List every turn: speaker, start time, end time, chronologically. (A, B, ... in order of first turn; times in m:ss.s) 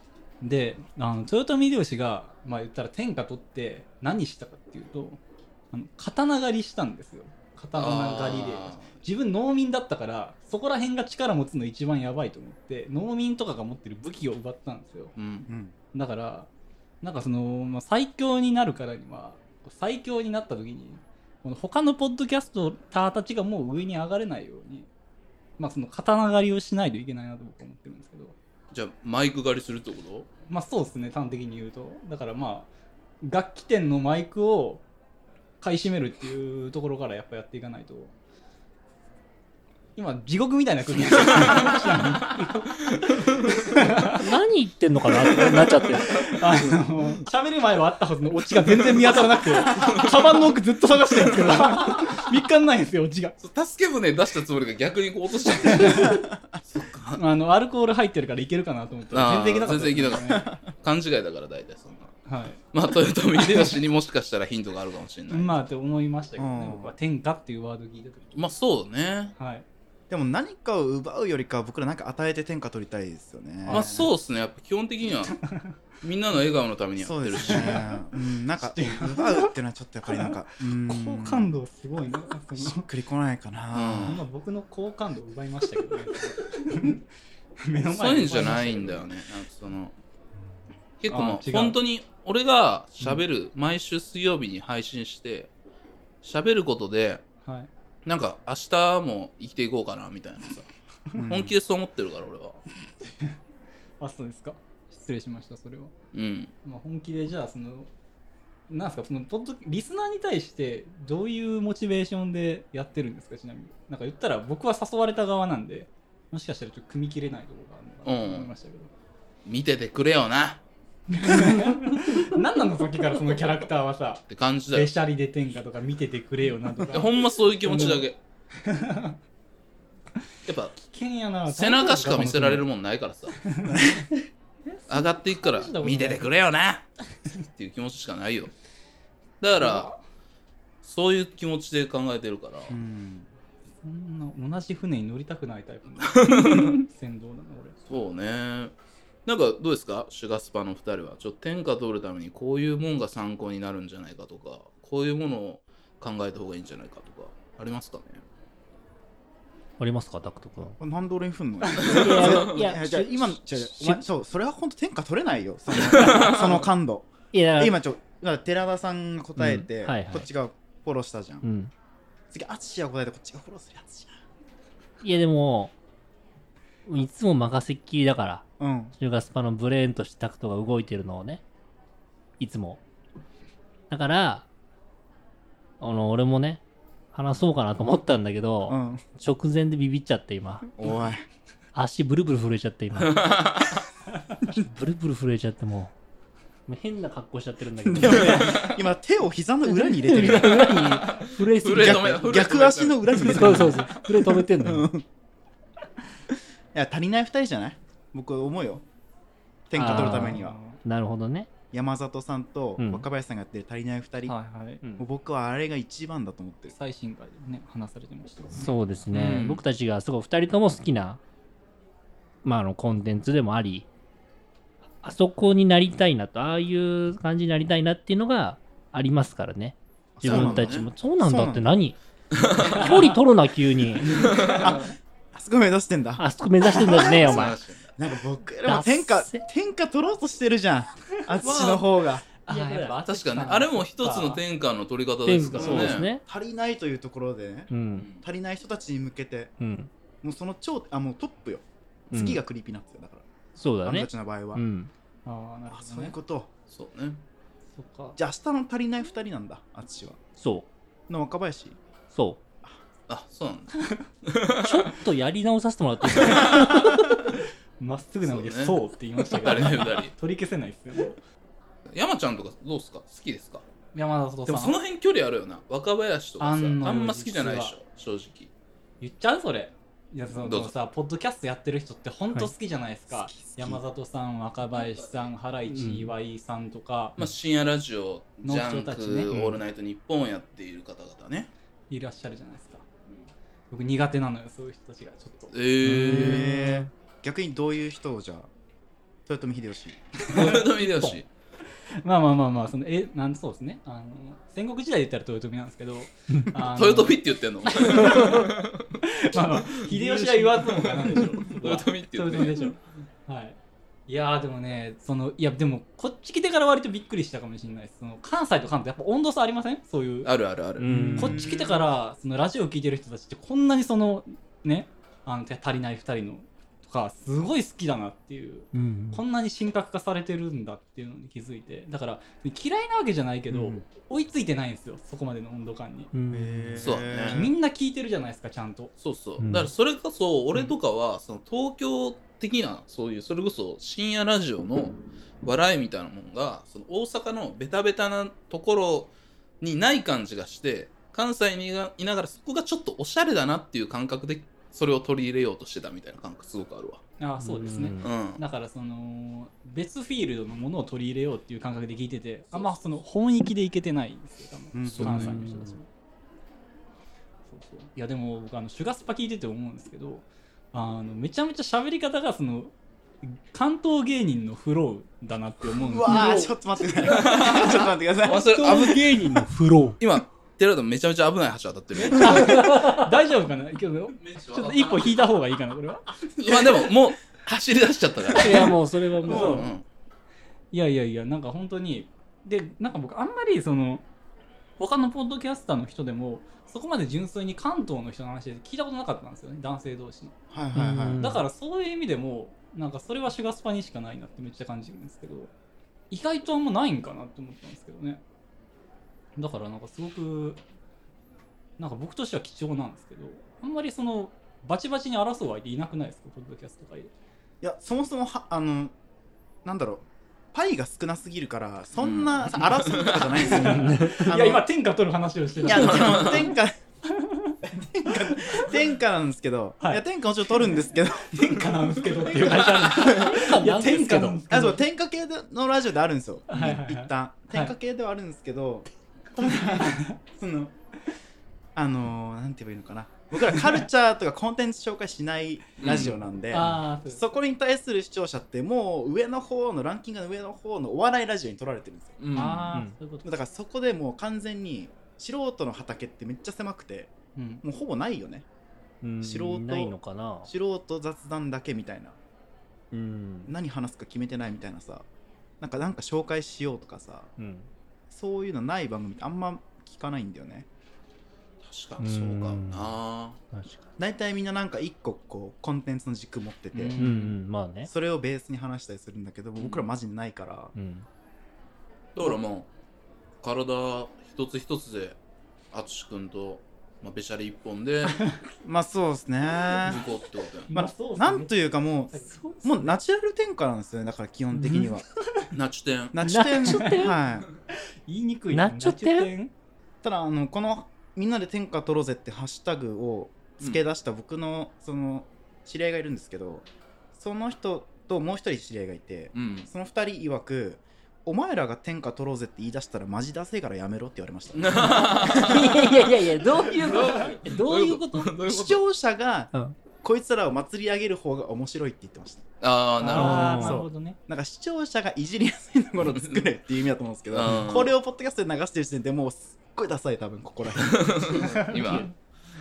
0:00.4-0:05.2 A
0:05.7-0:15.1 A
0:07.8-0:09.0 B
0:15.2-0:15.5 B
0:15.5-0:15.8 C
0:15.9-0:16.5 A
0:17.0-0:24.9 A
0:25.6-0:28.4 A
0:28.7-0:30.3 B
0:30.5-0:32.7 A
0:33.2-0:34.8 A
0:35.6-0:38.1 A
0:40.0-0:42.9 A
0:41.0-0:41.8 B
0:43.3-0:43.5 B
0:43.5-0:44.3 A
0:44.1-0:46.3 D
0:45.2-0:53.4 A
0:46.1-0:46.7 B
0:48.9-0:50.2 B
0:53.4-0:57.2 B
0:55.7-0:56.2 A
0:56.1-0:56.4 C
0:57.2-1:00.5 A
0:59.1-1:02.2 B
1:00.2-1:00.6 C
1:02.3-1:02.6 A
1:02.7-1:05.6 B
1:05.3-1:08.5 A
1:06.4-1:07.0 C
1:08.4-1:09.4 B
1:09.4-1:09.7 A
1:10.1-1:14.1 C
1:13.7-1:14.1 A
1:13.7-1:15.4 B
1:16.0-1:17.9 B
1:17.0-1:21.5 C
1:17.4-1:18.0 A
1:18.6-1:19.5 A
1:20.2-1:22.8 A
1:22.5-1:24.2 C
1:23.7-1:24.2 B
1:24.1-1:27.0 A
1:27.6-1:29.1 A
1:27.8-1:29.9 B
1:31.0-1:35.5 B
1:31.1-1:31.8 A
1:36.2-1:37.2 B
1:37.4-1:37.7 A
1:38.0-1:40.7 B
1:41.1-1:41.5 C
1:41.2-1:42.6 B
1:44.0-1:45.9 A
1:46.1-1:46.5 B
1:46.6-1:47.9 A
1:48.7-1:58.9 A
1:58.0-1:58.5 B
1:59.4-2:00.6 B
2:01.1-2:08.1 A
2:04.3-2:04.9 B
2:06.9-2:08.2 B
2:08.6-2:09.2 A
2:10.5-2:10.8 B
2:10.8-2:12.6 A
2:11.5-2:13.4 B
2:13.4-2:14.0 A
2:14.7-2:16.3 A
2:14.9-2:16.9 B
2:17.5-2:18.5 B
2:19.4-2:19.9 B
2:19.6-2:20.0 A
2:20.8-2:22.8 B
2:22.7-2:23.3 C
2:23.8-2:27.8 A
2:26.1-2:26.8 B
2:27.9-2:28.7 B
2:29.3-2:38.2 B
2:39.8-2:40.8 D
2:40.8-2:51.5 C
2:41.8-2:44.0 D
2:41.9-2:42.5 B
2:46.0-2:46.4 B
2:47.3-2:47.8 D
2:49.4-2:50.3 D
2:51.4-2:51.7 D
2:52.3-2:54.2 C
2:55.0-2:55.7 D
2:56.9-3:01.4 D
2:58.6-2:59.0 C
3:02.4-3:02.8 D
3:03.9-3:04.5 D
3:05.8-3:06.6 D
3:07.1-3:10.7 D
3:08.7-3:09.0 C
3:10.8-3:11.2 C
3:11.7-3:13.3 D
3:13.0-3:13.8 B
3:14.5-3:15.9 D
3:16.7-3:18.7 D
3:17.9-3:21.0 C
3:18.4-3:18.7 B
3:19.7-3:22.2 D
3:21.0-3:24.0 B
3:21.7-3:25.1 C
3:23.2-3:24.9 D
3:26.7-3:28.8 C
3:29.7-3:30.6 C
3:29.7-3:31.5 D
3:29.8-3:30.8 A
3:31.7-3:34.4 C
3:32.8-3:33.1 D
3:34.3-3:34.8 A
3:35.0-3:36.8 C
3:36.7-3:39.4 A
3:38.6-3:41.2 D
3:39.1-3:39.6 B
3:42.4-3:43.9 D
3:45.0-3:52.0 D
3:50.2-3:51.7 C
3:50.2-3:50.9 B
3:52.3-3:53.0 B
3:52.6-3:54.2 D
3:54.1-4:02.2 C
3:54.1-3:54.8 B
3:56.2-3:57.6 D
3:57.0-3:58.0 B
3:58.7-3:59.4 D
4:01.4-4:01.9 B
4:02.5-4:04.4 A
4:02.5-4:03.0 D
4:03.0-4:06.1 B
4:05.3-4:06.2 D
4:05.5-4:09.5 C
4:07.7-4:08.1 D
4:09.6-4:09.9 D
4:10.2-4:13.3 C
4:12.1-4:12.4 D
4:13.6-4:14.9 D
4:13.8-4:14.6 C
4:15.2-4:16.2 A
4:15.7-4:16.5 C
4:16.7-4:17.2 B
4:17.8-4:18.2 A
4:18.2-4:20.2 C
4:20.4-4:20.7 D
4:21.1-4:21.8 C
4:22.1-4:22.4 D
4:23.1-4:25.0 B
4:24.6-4:27.2 D
4:26.2-4:26.6 B
4:27.8-4:31.2 A
4:28.2-4:28.8 B
4:29.3-4:30.1 B
4:31.9-4:33.6 B
4:33.9-4:34.8 A
4:34.5-4:38.5 B
4:36.4-4:37.7 A
4:39.0-4:47.2 A
4:40.4-4:40.8 B
4:43.1-4:43.8 C
4:45.7-4:46.1 D
4:47.2-4:51.5 B
4:48.4-4:49.3 A
4:51.9-4:52.8 A
4:53.7-4:55.5 A
4:55.5-4:56.5 B
4:55.8-4:56.9 D
4:56.0-4:58.5 C
4:59.3-5:00.6 C
5:00.3-5:01.3 B
5:02.0-5:13.6 A
5:06.7-5:12.7 B
5:14.1-5:20.3 A
5:20.2-5:20.9 B
5:20.8-5:21.4 D
5:20.9-5:21.9 C
5:21.2-5:36.1 A
5:28.7-5:29.2 D
5:33.5-5:33.8 C
5:36.1-5:36.9 D
5:36.3-5:37.6 C
5:36.8-5:37.5 B
5:37.3-5:38.9 A
5:39.0-5:57.0 B
5:39.4-5:39.7 D
5:57.2-6:05.9 A
5:57.4-5:58.1 D
5:58.0-5:58.4 B
6:04.7-6:05.4 C
6:04.9-6:05.4 B
6:05.1-6:05.8 D
6:07.5-6:16.5 A
6:15.7-6:18.8 C
6:16.1-6:16.4 D
6:17.0-6:19.1 B
6:18.3-6:19.0 A
6:18.6-6:20.0 D
6:20.0-6:22.6 B
6:21.9-6:26.1 A
6:22.2-6:23.2 D
6:24.1-6:25.3 B
6:26.4-6:29.8 B
6:28.4-6:29.7 D
6:29.2-6:29.7 A
6:30.7-6:34.0 A
6:34.8-6:40.4 A
6:40.5-6:41.2 C
6:40.8-6:41.4 D
6:41.2-6:45.5 A
6:46.1-6:48.2 A
6:49.4-6:50.6 A
6:51.8-6:57.1 A
6:57.6-6:58.9 C
6:59.6-7:04.7 C
7:02.0-7:03.3 B
7:03.1-7:06.5 A
7:03.6-7:04.3 D
7:05.6-7:06.8 C
7:05.8-7:06.4 B
7:07.1-7:07.6 A
7:07.7-7:13.4 C
7:08.3-7:08.7 A
7:10.6-7:14.8 A
7:12.9-7:14.4 D
7:14.5-7:20.7 C
7:16.5-7:17.7 A
7:19.4-7:20.2 A
7:21.8-7:32.2 C
7:25.8-7:26.2 B
7:26.5-7:27.4 A
7:26.6-7:26.8 D
7:32.2-7:32.8 B
7:32.4-7:33.3 A
7:33.2-7:38.5 C
7:37.4-7:37.6 A
7:39.0-7:40.5 D
7:39.2-7:42.2 C
7:42.9-7:43.5 D
7:43.5-7:45.1 C
7:45.6-7:47.3 C
7:47.4-7:47.7 D
7:48.1-7:50.7 C
7:51.6-7:53.4 B
7:52.0-7:53.0 D
7:53.5-7:53.9 D
7:54.0-7:57.0 C
7:56.8-7:57.4 A
7:57.0-7:57.9 D
7:57.8-8:00.7 C
7:59.6-7:59.9 B
8:00.8-8:01.1 D
8:02.2-8:02.7 B
8:03.4-8:05.2 B
8:05.7-8:08.2 B
8:08.6-8:10.0 C
8:09.8-8:10.7 B
8:09.8-8:10.1 A
8:10.7-8:12.4 A
8:10.7-8:15.1 C
8:12.4-8:12.7 D
8:14.5-8:14.9 D
8:15.5-8:16.2 B
8:16.1-8:17.5 C
8:16.2-8:17.2 D
8:18.1-8:19.5 A
8:18.5-8:19.3 D
8:20.0-8:35.7 C
8:29.3-8:29.7 B
8:34.5-8:38.8 B
8:34.8-8:38.3 D
8:38.5-8:42.5 C
8:42.6-8:43.6 B
8:43.0-8:44.2 A
8:43.1-8:43.8 D
8:43.4-8:51.4 C
8:46.0-8:46.5 B
8:47.3-8:47.9 B
8:50.8-8:52.1 B
8:51.4-8:52.1 A
8:51.7-8:52.1 D